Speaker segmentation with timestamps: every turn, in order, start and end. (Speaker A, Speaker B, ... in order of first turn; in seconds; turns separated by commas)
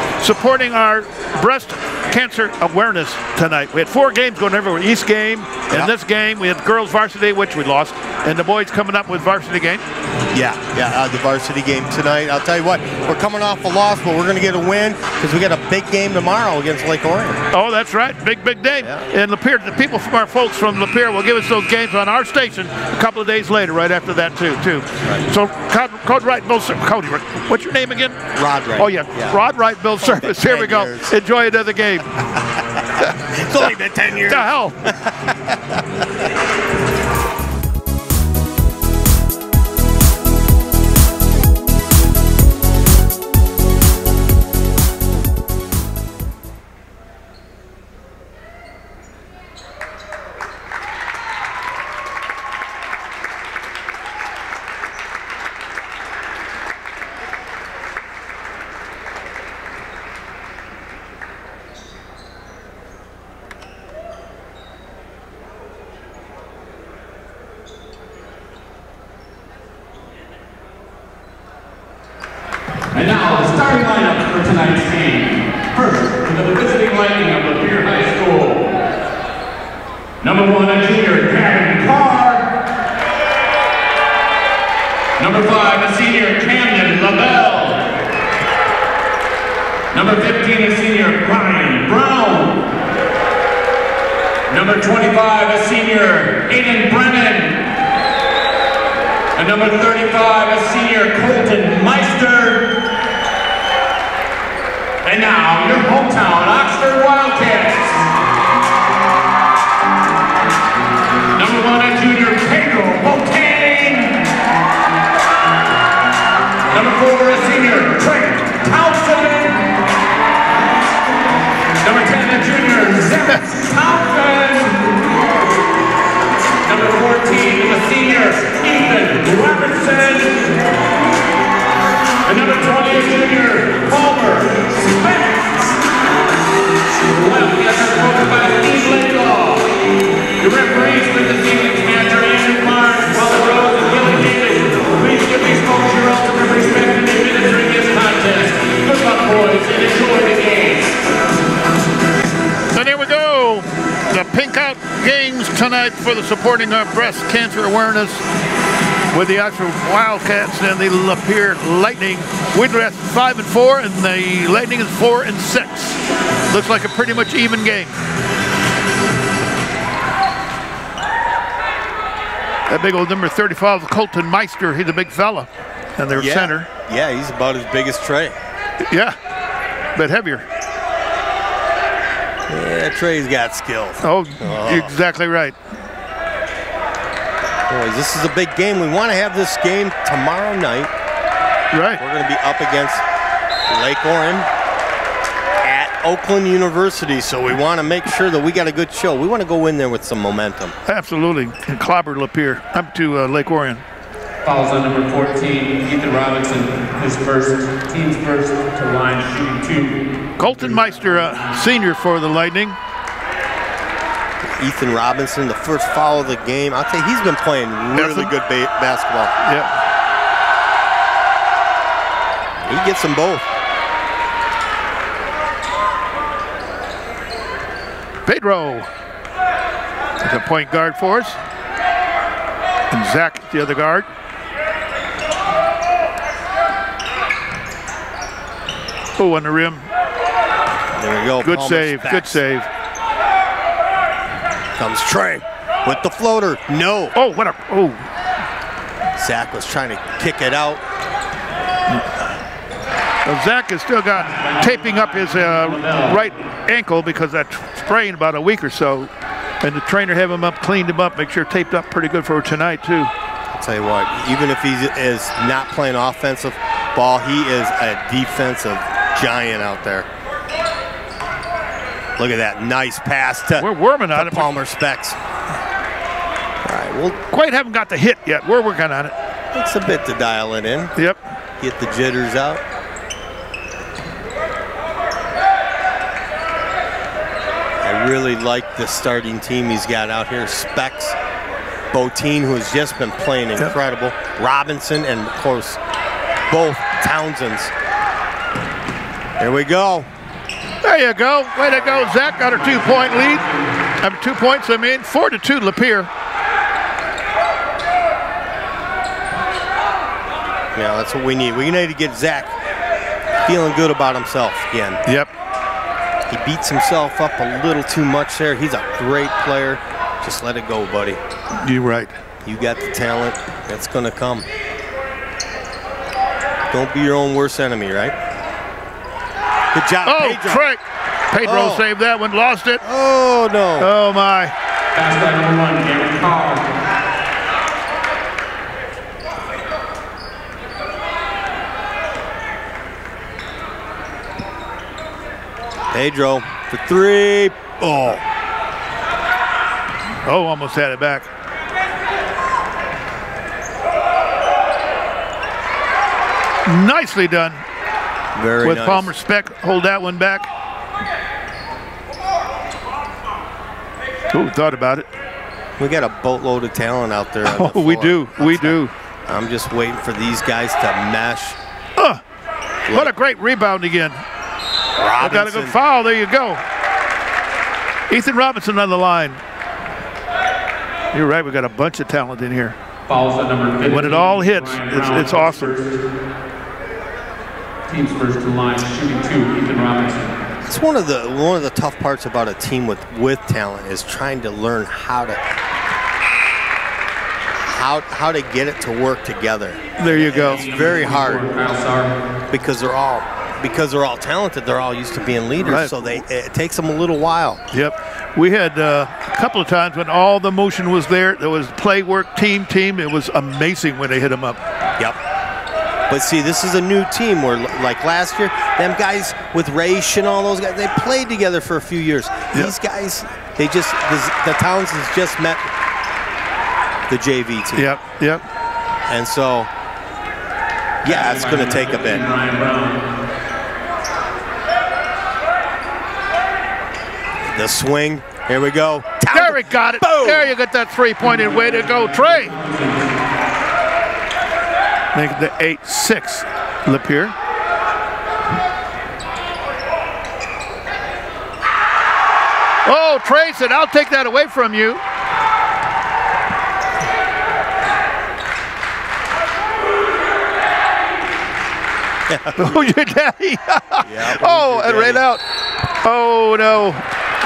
Speaker A: 0.2-9.8, Speaker B: 10.3-17.4, Speaker A: 17.5-28.2, Speaker B: 28.3-29.4, Speaker A: 28.8-32.2, Speaker B: 30.0-31.1, Speaker B: 32.6-35.8, Speaker A: 34.3-34.9, Speaker C: 72.9-78.8, Speaker C: 80.2-82.5, Speaker C: 85.2-87.9, Speaker C: 89.9-92.7, Speaker C: 94.5-97.7, Speaker C: 99.3-102.8, Speaker C: 105.0-108.1, Speaker C: 111.3-114.3, Speaker C: 116.7-119.7, Speaker C: 121.8-125.0, Speaker C: 126.6-130.5, Speaker C: 132.2-135.6, Speaker C: 136.9-139.8, Speaker C: 140.4-151.0, Speaker A: 152.7-158.2, Speaker A: 159.1-168.0, Speaker A: 172.7-176.7, Speaker B: 176.1-178.4, Speaker A: 178.8-179.2, Speaker A: 180.0-180.5, Speaker B: 182.5-184.9, Speaker A: 184.0-185.6, Speaker B: 187.7-190.9, Speaker A: 191.7-192.0, Speaker B: 192.0-193.0, Speaker B: 193.7-194.5, Speaker B: 195.6-200.8, Speaker A: 200.9-203.8, Speaker C: 204.4-210.2, Speaker A: 210.4-212.8, Speaker B: 214.6-219.3, Speaker A: 217.9-218.3, Speaker A: 219.4-219.8, Speaker B: 222.7-223.5, Speaker A: 228.2-228.9, Speaker A: 230.2-231.4, Speaker A: 232.9-234.1, Speaker A: 239.2-239.9, Speaker B: 241.0-242.4, Speaker A: 241.4-242.7, Speaker B: 244.8-247.2, Speaker A: 247.2-248.1, Speaker B: 249.2-250.8, Speaker A: 251.9-252.3, Speaker A: 253.2-259.1, Speaker C: 254.2-256.4, Speaker A: 259.6-263.1, Speaker B: 263.5-270.1, Speaker B: 272.2-275.2, Speaker A: 273.6-274.5, Speaker B: 276.6-277.2, Speaker A: 277.3-279.1, Speaker B: 279.5-280.9, Speaker A: 281.0-281.2, Speaker B: 281.6-282.6, Speaker B: 287.8-291.2, Speaker B: 291.9-295.8, Speaker B: 296.5-297.7, Speaker B: 299.4-300.1, Speaker A: 300.8-303.4, Speaker C: 302.3-303.7, Speaker A: 304.0-306.1, Speaker B: 310.8-312.5, Speaker B: 313.4-315.0, Speaker B: 316.3-321.2, Speaker A: 321.6-322.2, Speaker B: 322.4-324.5, Speaker B: 326.7-328.1, Speaker B: 329.7-330.6, Speaker A: 330.0-332.8, Speaker B: 331.4-331.9, Speaker B: 332.8-333.9, Speaker A: 333.8-334.5, Speaker C: 334.9-336.8, Speaker B: 345.9-348.2, Speaker A: 350.2-351.3, Speaker A: 356.7-357.6, Speaker B: 358.4-359.1, Speaker A: 358.6-360.5, Speaker A: 364.3-365.1, Speaker B: 365.8-371.6, Speaker A: 367.4-368.9, Speaker A: 372.9-374.2, Speaker B: 375.0-375.8, Speaker A: 375.2-376.6, Speaker A: 378.1-379.4, Speaker A: 381.1-382.8, Speaker C: 383.1-385.9, Speaker A: 383.9-385.7, Speaker C: 387.9-390.4, Speaker B: 390.6-395.4, Speaker B: 397.7-401.5, Speaker A: 400.0-400.6, Speaker C: 400.2-402.1, Speaker B: 402.5-407.6, Speaker A: 405.6-406.2, Speaker A: 407.7-414.6, Speaker B: 416.1-425.7, Speaker B: 427.1-427.9, Speaker A: 427.8-428.4, Speaker B: 429.1-429.7, Speaker B: 431.0-432.2, Speaker C: 431.0-433.0, Speaker B: 437.4-440.5, Speaker A: 439.3-442.5, Speaker C: 441.4-443.1, Speaker A: 445.1-447.4, Speaker A: 452.9-455.0, Speaker B: 462.3-462.9, Speaker A: 462.6-465.4, Speaker B: 464.0-465.3, Speaker A: 466.0-467.1